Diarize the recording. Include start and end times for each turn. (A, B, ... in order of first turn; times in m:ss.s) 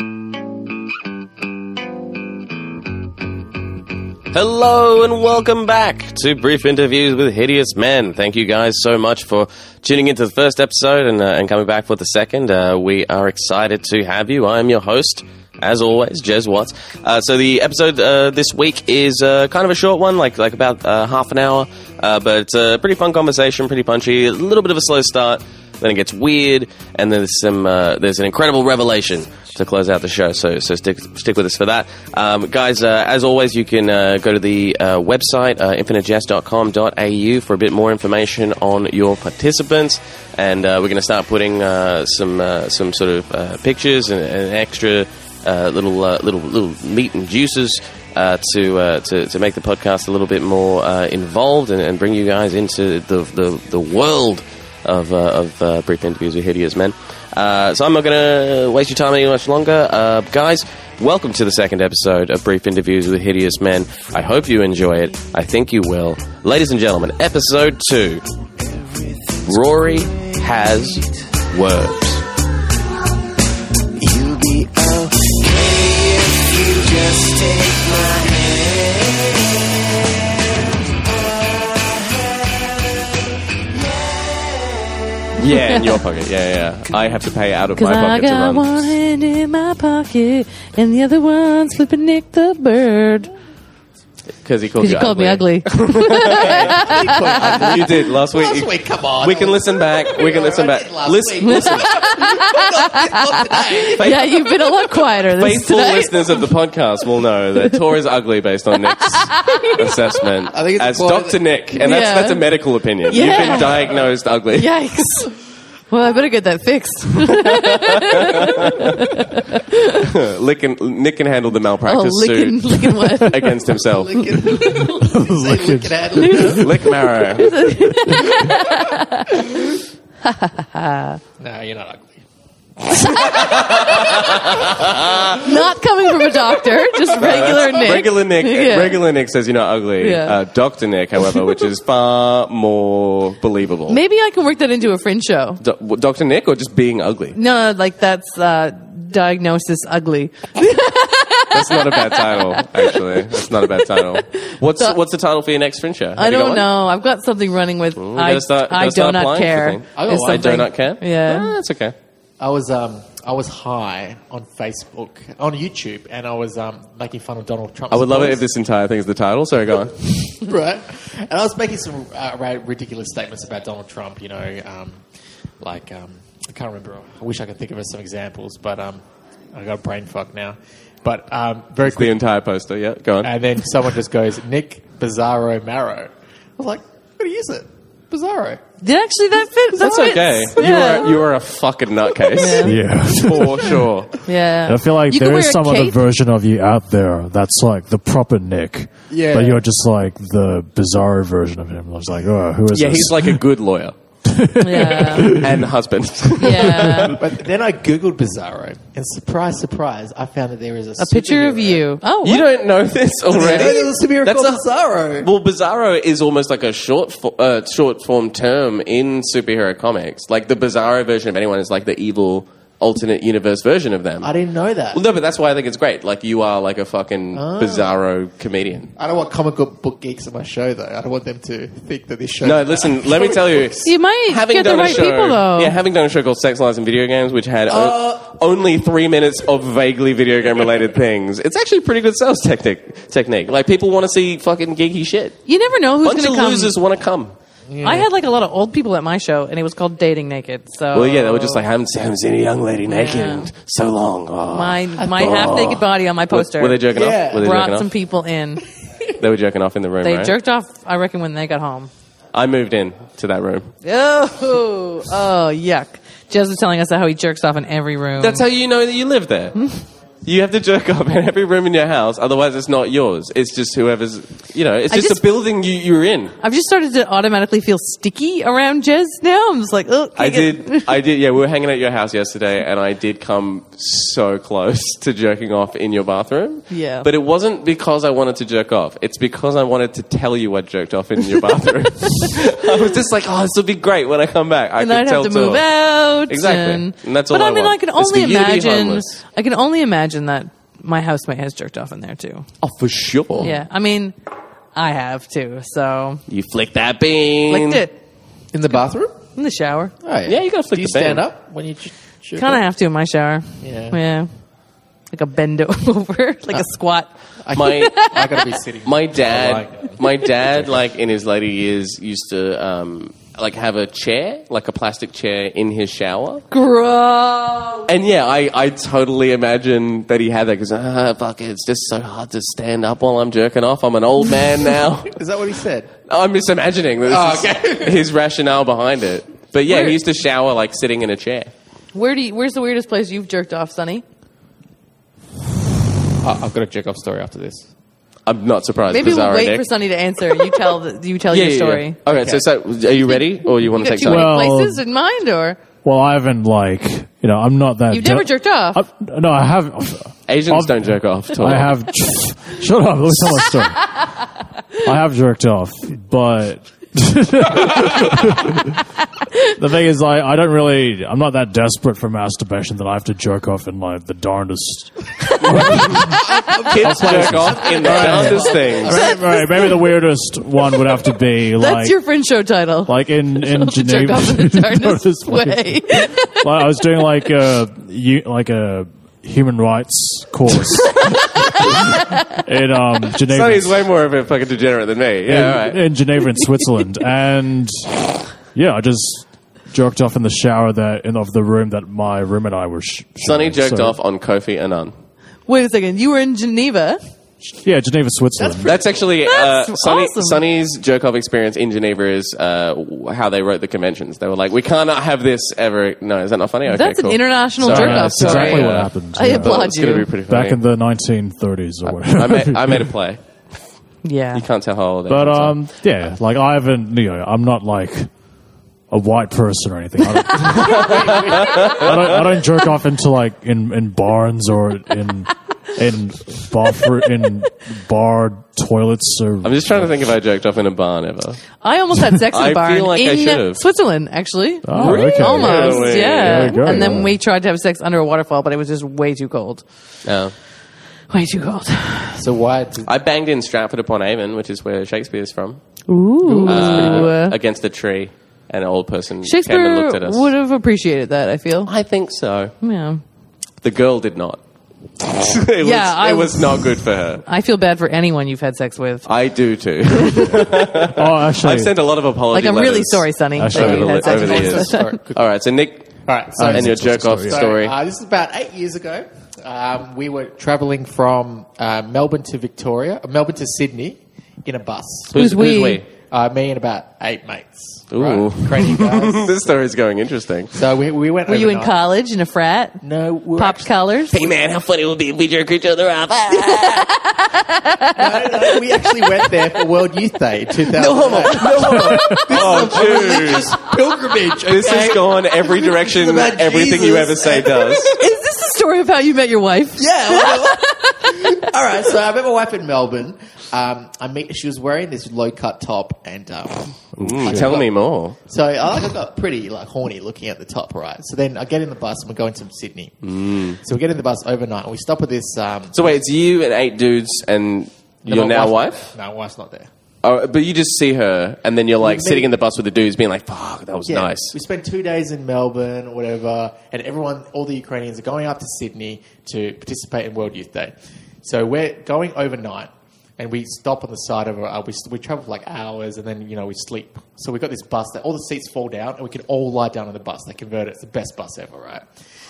0:04.3-1:08.2 A
1:09.0-1:09.4 B
1:09.4-1:12.2 A
1:14.0-1:19.2 B
1:21.4-1:21.8 B
1:25.4-1:28.9 A
1:25.5-1:26.0 C
1:27.8-1:33.3 C
1:34.4-1:36.9 A
1:34.8-1:37.8 C
1:36.2-1:44.3 D
1:37.4-1:42.0 A
1:41.4-1:46.5 C
1:43.9-1:44.7 A
1:45.2-1:54.7 A
1:49.0-1:49.9 C
1:50.5-1:51.4 D
1:51.7-1:52.5 C
1:53.1-1:55.4 C
1:55.9-2:00.0 C
1:57.4-1:58.9 A
2:00.0-2:04.2 A
2:01.8-2:03.7 C
2:03.8-2:06.7 D
2:04.4-2:04.8 C
2:04.6-2:06.7 E
2:06.2-2:09.6 C
2:06.6-2:07.6 A
2:07.9-2:08.4 E
2:10.2-2:11.2 C
2:11.4-2:12.2 D
2:12.9-2:14.9 D
2:13.1-2:14.0 C
2:13.3-2:15.4 A
2:15.3-2:19.0 C
2:17.1-2:24.0 A
2:20.0-2:20.4 C
2:23.9-2:25.6 C
2:25.6-2:27.4 A
2:27.3-2:34.1 C
2:31.5-2:36.7 A
2:36.2-2:41.5 C
2:38.0-2:41.9 A
2:40.0-2:40.7 D
2:42.4-2:48.4 D
2:47.9-2:50.4 A
2:50.4-2:55.0 D
2:55.6-3:02.2 D
3:01.8-3:03.3 A
3:03.2-3:08.6 D
3:08.8-3:11.3 C
3:09.7-3:14.2 A
3:12.3-3:12.8 C
3:12.6-3:13.8 E
3:14.2-3:16.0 C
3:14.6-3:23.4 E
3:19.1-3:19.6 D
3:22.7-3:23.9 A
3:24.2-3:25.7 E
3:24.6-3:25.4 C
3:25.2-3:27.2 A
3:26.4-3:27.2 C
3:27.1-3:31.8 D
3:31.0-3:32.5 C
3:32.2-3:34.6 A
3:33.3-3:35.3 D
3:35.2-3:44.3 A
3:44.2-3:45.0 D
3:44.9-3:48.9 A
3:47.3-3:47.9 D
3:49.0-3:53.6 D
3:52.4-4:05.4 A
3:53.8-3:55.8 C
3:57.7-3:58.2 D
4:05.4-4:06.7 C
4:06.0-4:07.3 A
4:07.7-4:08.1 D
4:07.8-4:11.6 C
4:10.9-4:17.9 A
4:12.9-4:13.5 C
4:14.5-4:18.6 C
4:15.0-4:15.6 D
4:16.9-4:17.4 D
4:19.2-4:20.3 A
4:20.0-4:21.9 C
4:22.3-4:23.7 A
4:23.8-4:28.4 C
4:28.2-4:29.6 A
4:30.2-4:36.3 A
4:34.9-4:35.2 C
4:36.4-4:40.9 C
4:40.2-4:59.2 A
4:46.7-4:47.1 C
4:54.8-5:02.5 C
5:02.6-5:03.6 A
5:03.4-5:04.2 C
5:04.7-5:06.2 C
5:06.3-5:07.8 A
5:07.5-5:08.0 C
5:08.5-5:09.1 D
5:09.3-5:09.9 C
5:10.0-5:12.6 D
5:10.3-5:11.2 A
5:12.4-5:14.3 C
5:13.6-5:14.0 D
5:15.1-5:18.6 C
5:17.4-5:20.0 D
5:17.5-5:17.9 A
5:18.8-5:26.4 A
5:26.5-5:27.9 C
5:27.9-5:35.1 A
5:35.1-5:35.9 D
5:36.1-5:41.5 A
5:37.0-5:38.0 D
5:39.7-5:40.0 C
5:41.9-5:44.0 C
5:46.2-5:47.7 D
5:48.2-5:49.7 A
5:48.9-5:52.0 C
5:50.3-5:50.6 A
5:51.3-5:54.4 A
5:52.1-5:52.4 D
5:53.6-5:55.6 C
5:54.0-5:54.8 E
5:55.8-6:04.0 E
5:57.9-5:58.8 C
6:00.3-6:01.7 A
6:04.8-6:08.8 E
6:09.6-6:22.0 E
6:16.0-6:19.2 D
6:16.7-6:19.0 A
6:19.1-6:19.7 C
6:21.6-6:27.3 C
6:22.8-6:33.8 E
6:33.3-6:35.8 A
6:35.2-6:44.0 E
6:43.2-6:44.9 A
6:45.5-6:47.0 C
6:47.4-6:48.7 E
6:48.4-6:48.9 D
6:48.6-7:00.6 A
6:49.2-6:50.4 C
6:56.7-7:00.1 C
6:57.6-6:59.7 E
7:00.2-7:02.9 E
7:01.8-7:03.2 A
7:04.0-7:04.4 C
7:04.3-7:05.6 A
7:05.1-7:08.1 E
7:08.9-7:19.9 E
7:10.5-7:12.2 A
7:10.8-7:11.8 D
7:19.4-7:21.4 A
7:21.6-7:29.6 C
7:22.3-7:23.6 A
7:24.6-7:27.2 E
7:24.7-7:26.6 A
7:26.6-7:27.0 D
7:30.0-7:30.3 A
7:31.1-7:32.2 C
7:32.2-7:32.9 D
7:32.9-7:35.6 A
7:35.9-7:37.4 C
7:36.2-7:37.1 D
7:36.4-7:40.3 A
7:39.2-7:41.7 C
7:41.6-7:42.5 A
7:42.6-7:43.0 C
7:43.6-7:44.4 A
7:45.0-7:47.2 A
7:45.6-7:49.0 C
7:49.0-7:57.7 A
7:50.0-7:50.5 C
7:50.9-7:51.7 E
7:52.3-7:54.9 C
7:53.3-7:54.0 E
7:53.6-7:55.2 D
7:56.0-8:05.3 D
7:56.4-7:57.5 E
8:05.1-8:05.8 A
8:05.1-8:05.8 C
8:06.1-8:09.3 D
8:07.9-8:10.5 A
8:10.5-8:11.7 D
8:11.3-8:12.8 C
8:12.8-8:13.7 D
8:13.4-8:14.2 C
8:14.1-8:16.9 A
8:16.4-8:18.6 C
8:18.0-8:28.0 D
8:20.7-8:23.7 A
8:21.0-8:22.7 C
8:24.4-8:27.9 A
8:27.9-8:31.4 C
8:29.8-8:37.7 D
8:37.0-8:37.6 E
8:37.0-8:38.2 A
8:38.2-8:46.0 D
8:43.0-8:43.6 A
8:45.7-8:48.8 A
8:48.0-8:49.7 D
8:50.0-8:54.3 A
8:51.8-8:52.3 D
8:53.9-9:11.8 D